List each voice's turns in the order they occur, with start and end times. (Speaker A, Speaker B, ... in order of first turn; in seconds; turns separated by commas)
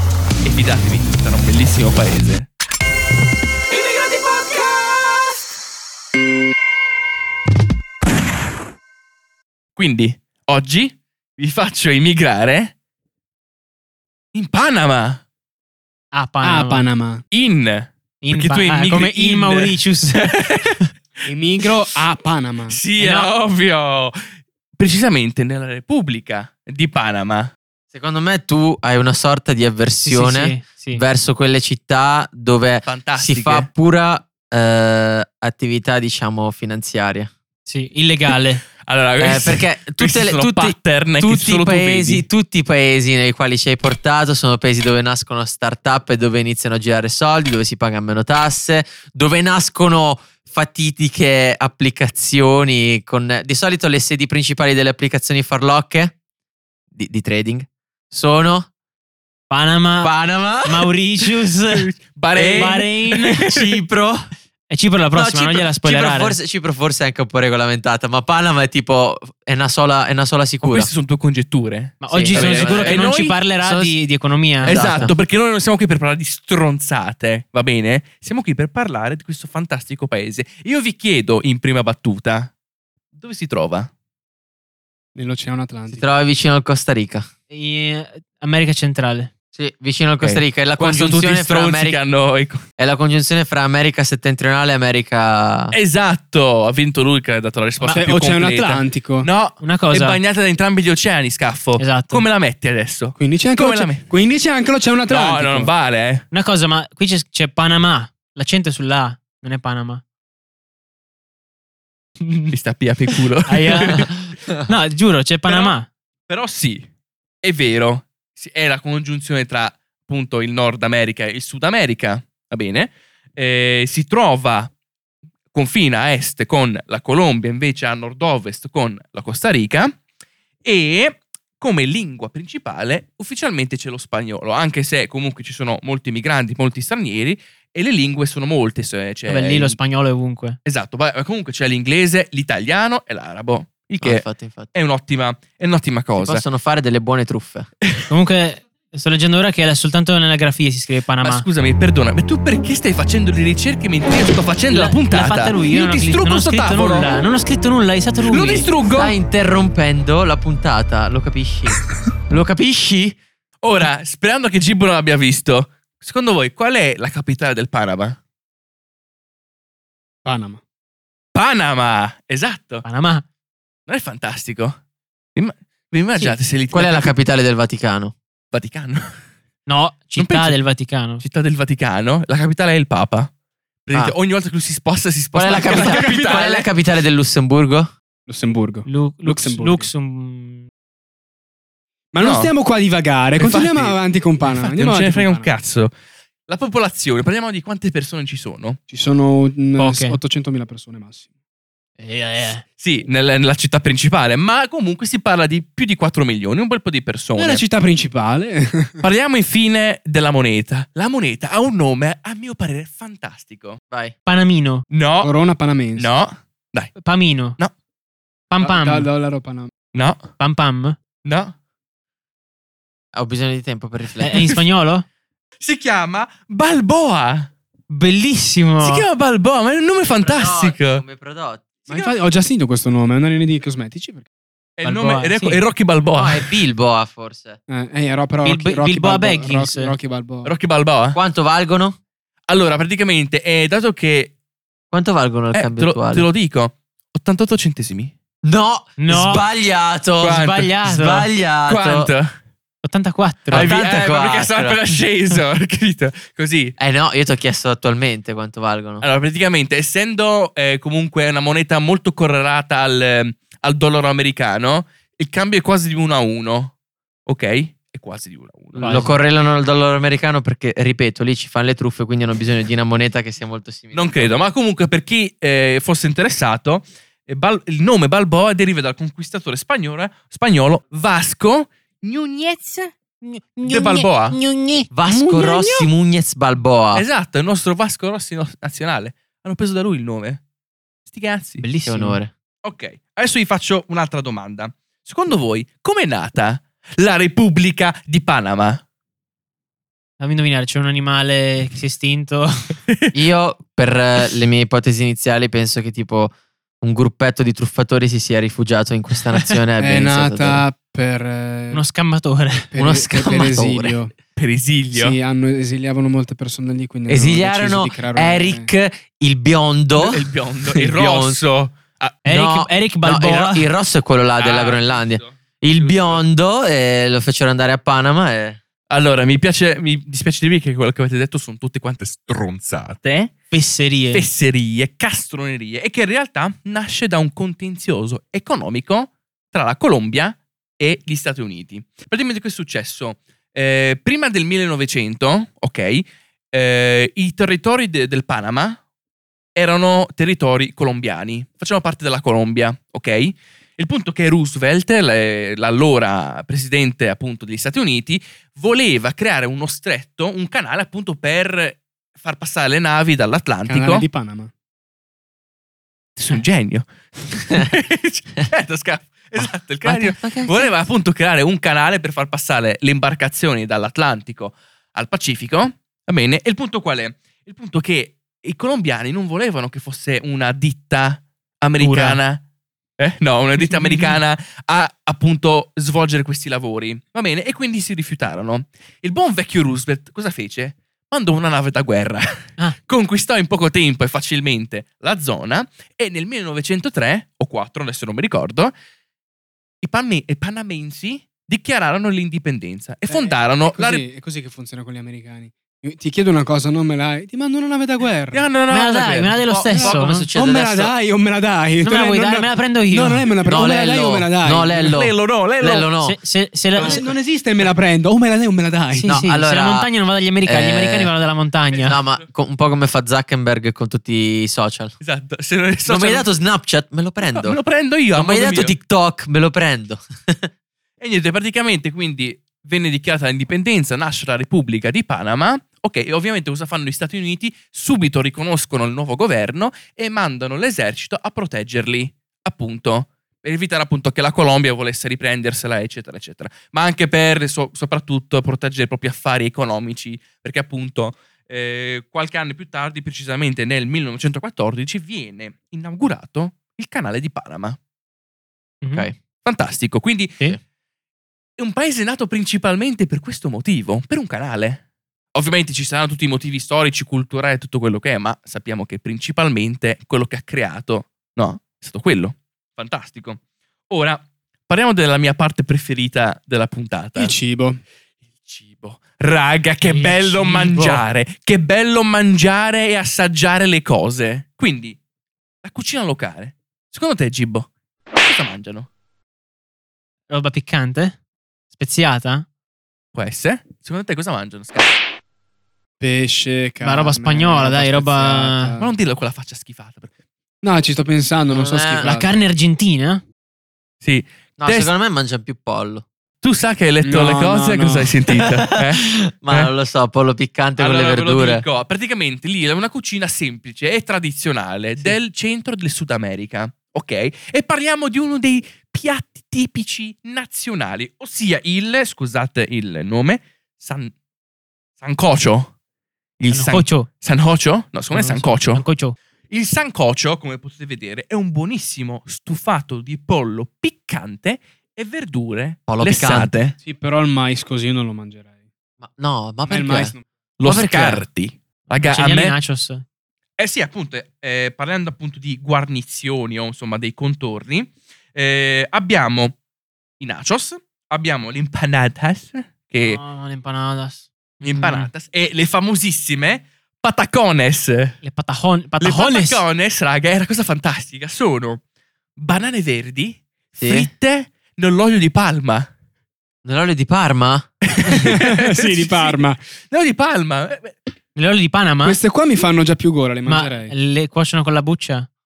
Speaker A: 0.4-2.5, Speaker A: 9.8-12.7, Speaker A: 14.3-15.2, Speaker B: 16.1-16.9, Speaker C: 16.4-17.2, Speaker A: 17.3-20.8, Speaker B: 18.2-20.4, Speaker C: 21.2-22.8, Speaker A: 22.7-27.5, Speaker B: 23.0-23.3, Speaker D: 27.9-37.3, Speaker B: 30.0-31.0, Speaker A: 32.8-33.7, Speaker B: 37.6-38.6, Speaker A: 38.8-42.2, Speaker D: 39.2-56.1, Speaker D: 56.9-58.7, Speaker B: 59.5-61.9, Speaker D: 60.0-60.9, Speaker A: 61.7-63.7, Speaker D: 62.3-62.8, Speaker B: 62.5-63.4, Speaker D: 63.4-64.3, Speaker B: 64.7-66.4, Speaker D: 65.1-70.9, Speaker A: 70.6-73.4, Speaker B: 72.0-75.1, Speaker D: 72.1-74.0, Speaker D: 74.6-75.1, Speaker A: 74.6-82.5, Speaker A: 83.2-83.9, Speaker C: 85.1-86.0, Speaker D: 85.9-87.3, Speaker B: 87.5-89.3, Speaker D: 89.5-92.0, Speaker A: 90.2-92.6, Speaker D: 92.8-95.7, Speaker A: 95.7-104.0, Speaker C: 97.9-99.3, Speaker B: 99.6-100.2, Speaker B: 101.8-102.2, Speaker C: 103.2-105.7, Speaker A: 105.1-106.2, Speaker B: 106.3-110.0, Speaker B: 112.2-112.5, Speaker A: 112.5-114.1, Speaker B: 113.4-115.9, Speaker A: 115.5-115.7, Speaker A: 116.3-116.9, Speaker A: 117.4-124.7, Speaker A: 125.5-130.0, Speaker A: 130.6-139.8, Speaker B: 139.2-140.6, Speaker A: 140.6-146.4, Speaker D: 144.0-144.7, Speaker D: 146.1-147.7, Speaker B: 148.1-151.4, Speaker A: 151.2-157.2, Speaker B: 154.7-158.7, Speaker A: 158.2-159.1, Speaker D: 158.9-163.2, Speaker A: 163.6-168.2, Speaker C: 170.2-170.6, Speaker A: 171.3-172.8, Speaker B: 172.8-173.2, Speaker A: 173.9-174.8, Speaker A: 175.3-177.1, Speaker D: 176.7-178.1, Speaker A: 178.5-179.1, Speaker B: 179.7-181.2, Speaker A: 180.2-180.6, Speaker A: 181.2-183.3, Speaker A: 183.8-186.7, Speaker D: 185.3-187.9, Speaker C: 185.7-186.0, Speaker C: 188.3-189.9, Speaker B: 188.8-190.7, Speaker C: 192.1-195.5, Speaker A: 192.2-192.5, Speaker A: 193.4-194.0, Speaker A: 194.5-195.9, Speaker A: 196.5-198.8, Speaker C: 198.9-201.2, Speaker B: 199.8-200.2, Speaker B: 202.0-202.6, Speaker A: 202.8-207.6, Speaker C: 207.3-209.0, Speaker A: 209.0-213.8, Speaker D: 213.9-214.1, Speaker B: 214.3-214.8, Speaker A: 214.9-215.3, Speaker C: 215.2-216.1, Speaker A: 216.0-216.9, Speaker B: 217.0-217.6, Speaker B: 218.5-219.1, Speaker C: 218.6-219.7, Speaker A: 219.9-220.3, Speaker B: 220.4-221.0, Speaker A: 221.2-221.6, Speaker D: 223.1-224.6, Speaker B: 224.2-225.0, Speaker A: 225.6-227.5, Speaker B: 227.9-229.0, Speaker A: 228.8-231.0, Speaker D: 230.2-231.7, Speaker C: 231.9-234.2, Speaker A: 234.8-236.6, Speaker B: 234.8-235.6, Speaker D: 236.2-237.6, Speaker C: 237.7-240.5, Speaker B: 238.4-239.9, Speaker A: 240.4-241.2, Speaker D: 241.1-242.0, Speaker A: 242.5-244.3, Speaker D: 244.9-246.2, Speaker A: 245.5-248.1, Speaker D: 248.4-252.1, Speaker B: 249.0-249.4, Speaker A: 250.2-250.7, Speaker B: 250.3-251.3, Speaker A: 251.7-252.4, Speaker B: 252.8-253.7, Speaker D: 253.5-254.8, Speaker A: 253.5-256.7, Speaker D: 256.8-259.0, Speaker A: 259.0-266.7, Speaker A: 267.2-269.0, Speaker B: 268.7-269.1, Speaker D: 268.8-274.4, Speaker A: 273.9-282.6, Speaker B: 282.7-284.9, Speaker A: 283.6-284.4, Speaker D: 284.9-287.0, Speaker A: 285.1-285.9, Speaker A: 286.9-290.4, Speaker A: 291.1-291.6, Speaker B: 291.6-292.2, Speaker D: 291.8-292.3, Speaker A: 292.6-298.8, Speaker B: 300.2-302.8, Speaker D: 303.1-310.6, Speaker C: 309.8-311.8, Speaker B: 311.7-312.7, Speaker C: 312.7-314.1, Speaker D: 312.7-314.0, Speaker A: 314.4-315.1, Speaker C: 314.9-318.7, Speaker D: 317.1-321.4, Speaker A: 319.9-322.2, Speaker B: 322.2-323.7, Speaker D: 322.2-328.6, Speaker A: 324.4-326.2, Speaker A: 328.9-333.3, Speaker B: 333.5-334.2, Speaker A: 334.1-348.8, Speaker A: 349.5-364.1, Speaker C: 363.7-364.5, Speaker A: 366.1-382.4, Speaker D: 369.4-370.7, Speaker B: 381.8-382.2, Speaker A: 383.0-398.7, Speaker B: 383.6-384.2, Speaker A: 399.8-404.0, Speaker C: 403.1-408.4, Speaker A: 408.3-410.0, Speaker B: 408.7-410.3, Speaker D: 409.8-410.9, Speaker C: 410.3-414.9, Speaker B: 411.8-413.3, Speaker D: 413.4-416.2, Speaker A: 414.8-415.9, Speaker B: 416.0-417.1, Speaker A: 416.8-417.1, Speaker C: 416.8-419.1, Speaker B: 418.9-422.0, Speaker D: 419.0-419.9, Speaker D: 420.4-421.1, Speaker D: 421.8-424.9, Speaker A: 421.8-422.2, Speaker A: 425.0-426.3, Speaker D: 425.9-427.6, Speaker A: 427.2-428.8, Speaker D: 428.1-430.5, Speaker A: 431.0-457.8, Speaker B: 458.8-459.1, Speaker A: 459.4-460.4, Speaker A: 461.6-464.8, Speaker A: 465.3-477.3, Speaker C: 477.1-477.8, Speaker A: 478.4-485.0, Speaker B: 479.8-481.0, Speaker A: 485.6-488.9, Speaker B: 490.3-491.2, Speaker B: 491.7-492.4, Speaker A: 493.1-494.9, Speaker C: 496.0-498.9, Speaker B: 496.8-498.8, Speaker A: 498.8-500.1, Speaker C: 500.6-502.4, Speaker D: 501.5-502.1, Speaker B: 502.0-503.2, Speaker A: 504.0-504.9, Speaker D: 504.6-506.1, Speaker A: 506.4-509.7, Speaker C: 507.0-508.1, Speaker D: 508.4-511.6, Speaker A: 510.8-524.1, Speaker A: 525.0-525.7, Speaker A: 526.4-528.8, Speaker B: 526.5-527.1, Speaker B: 528.1-529.1, Speaker A: 529.5-536.7, Speaker D: 535.9-536.6, Speaker C: 536.8-538.5, Speaker D: 539.0-541.2, Speaker C: 539.7-540.2, Speaker A: 540.6-542.5, Speaker B: 542.1-543.0, Speaker A: 543.6-549.5, Speaker A: 550.2-553.2, Speaker B: 553.0-555.1, Speaker A: 554.6-558.2, Speaker B: 558.2-559.6, Speaker A: 559.0-561.8, Speaker A: 562.4-565.9, Speaker D: 563.8-564.1, Speaker D: 566.6-567.7, Speaker A: 567.8-571.0, Speaker C: 568.1-569.6, Speaker B: 571.4-572.2, Speaker C: 572.0-573.9, Speaker B: 573.4-575.3